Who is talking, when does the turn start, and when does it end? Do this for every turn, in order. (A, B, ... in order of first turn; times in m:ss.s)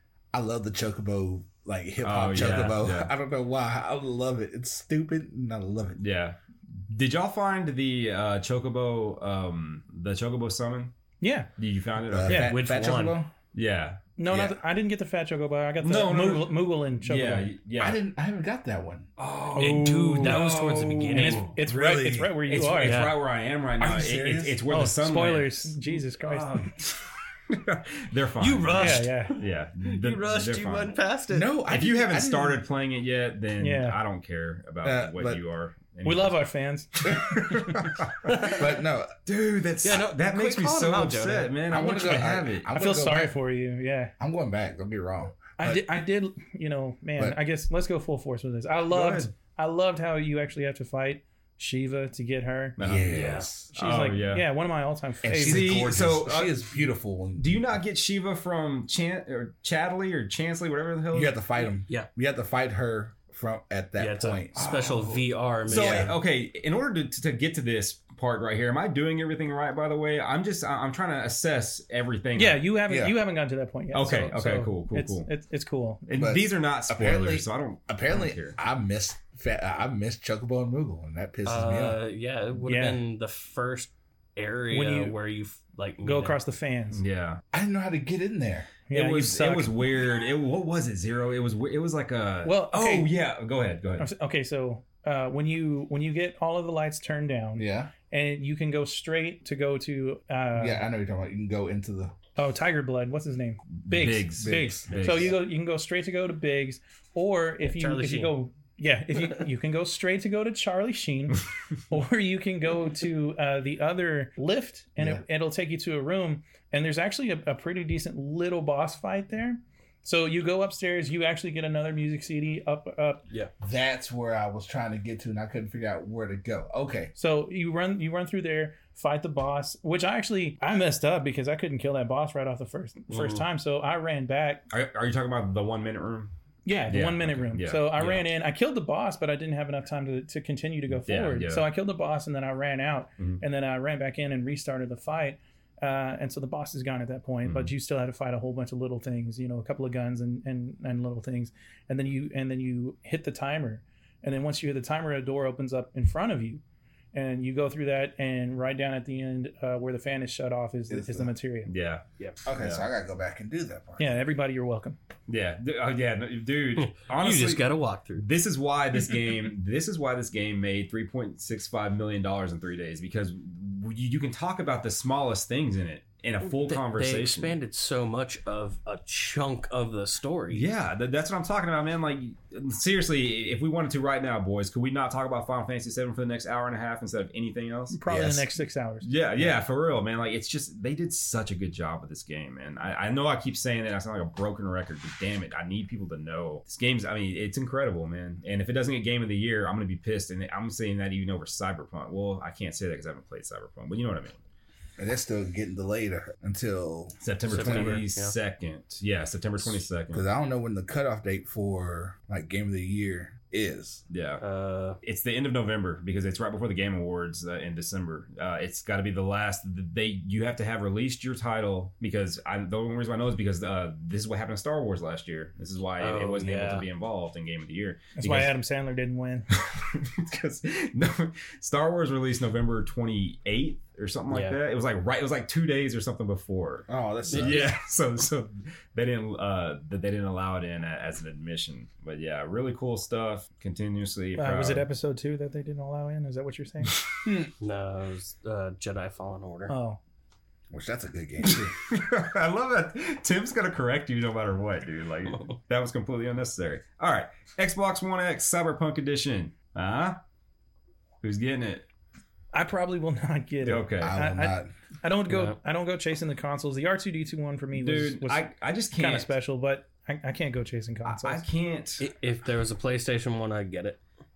0:00.3-0:06.0 A
0:02.0-0:03.1 B
0:06.0-0:10.9 B
0:11.2-0:11.5 C
0:11.6-0:12.5 B
0:12.1-0:13.3 A
0:12.3-0:13.2 D
0:13.5-0:14.0 B
0:14.2-0:17.5 C
0:14.3-0:14.6 A
0:15.8-0:18.0 B
0:17.8-0:19.1 A
0:19.2-0:21.7 B
0:19.6-0:20.5 C
0:19.6-0:21.5 D
0:21.1-0:23.1 C
0:21.6-0:22.4 A
0:22.5-0:30.9 B
0:22.8-0:23.2 D
0:23.8-0:24.6 A
0:24.7-0:26.7 C
0:28.4-0:31.5 D
0:28.7-0:29.4 C
0:31.3-0:32.6 A
0:31.7-0:36.4 B
0:33.6-0:34.0 C
0:34.8-0:35.4 A
0:36.0-0:37.6 C
0:37.0-0:38.7 B
0:37.1-0:39.1 A
0:39.3-0:42.7 B
0:39.8-0:41.6 D
0:41.7-0:43.4 A
0:42.7-0:44.1 C
0:44.2-0:45.9 A
0:45.6-0:52.8 C
0:48.9-0:49.3 B
0:52.8-0:54.5 B
0:52.8-0:53.7 A
0:53.1-0:53.5 D
0:53.7-0:55.9 C
0:55.2-0:57.6 A
0:55.4-0:56.5 B
0:57.4-1:01.4 B
1:01.1-1:06.1 A
1:04.0-1:06.1 D
1:04.7-1:04.9 B
1:05.7-1:12.7 B
1:12.4-1:16.1 C
1:12.9-1:13.2 A
1:13.9-1:15.3 B
1:16.1-1:18.6 B
1:16.2-1:22.0 A
1:21.5-1:26.4 D
1:22.6-1:23.0 C
1:24.7-1:25.2 C
1:26.0-1:27.0 C
1:26.9-1:27.4 B
1:27.5-1:28.7 A
1:28.9-1:29.8 C
1:28.9-1:34.1 B
1:32.4-1:33.1 C
1:34.0-1:40.8 C
1:37.6-1:37.9 A
1:40.6-1:42.2 A
1:42.4-2:03.2 C
1:43.8-1:45.4 B
1:44.4-1:45.3 A
1:47.6-1:48.3 D
1:55.0-1:55.2 A
2:03.6-2:07.1 A
2:07.2-2:14.6 C
2:13.1-2:13.4 D
2:14.7-2:16.3 B
2:16.6-2:36.6 C
2:16.9-2:18.2 B
2:20.9-2:21.7 B
2:27.4-2:27.7 B
2:37.1-2:41.7 C
2:40.9-2:41.3 A
2:41.7-2:42.0 B
2:42.4-2:44.2 A
2:42.6-2:42.9 B
2:44.0-2:45.0 C
2:45.3-2:47.7 B
2:46.8-2:48.2 D
2:48.2-2:57.5 B
2:56.4-3:00.7 D
3:00.5-3:08.0 B
3:07.9-3:09.1 C
3:08.1-3:08.5 A
3:09.0-3:24.4 B
3:25.0-3:28.0 A
3:27.2-3:30.2 B
3:27.5-3:28.3 D
3:30.1-3:34.0 A
3:34.1-3:34.4 B
3:34.4-3:35.0 D
3:35.0-3:48.5 B
3:46.0-3:46.9 D
3:48.2-3:49.5 C
3:49.7-4:04.9 B
3:54.3-3:54.6 D
3:56.9-3:57.8 A
3:57.3-3:57.6 D
4:04.4-4:07.0 C
4:07.6-4:09.7 D
4:09.7-4:10.0 C
4:10.7-4:11.8 A
4:11.8-4:20.2 B
4:21.2-4:21.9 B
4:22.5-4:31.4 C
4:23.6-4:24.2 B
4:24.0-4:24.7 A
4:25.3-4:25.6 D
4:27.7-4:29.3 B
4:31.0-4:32.0 B
4:32.0-4:34.0 D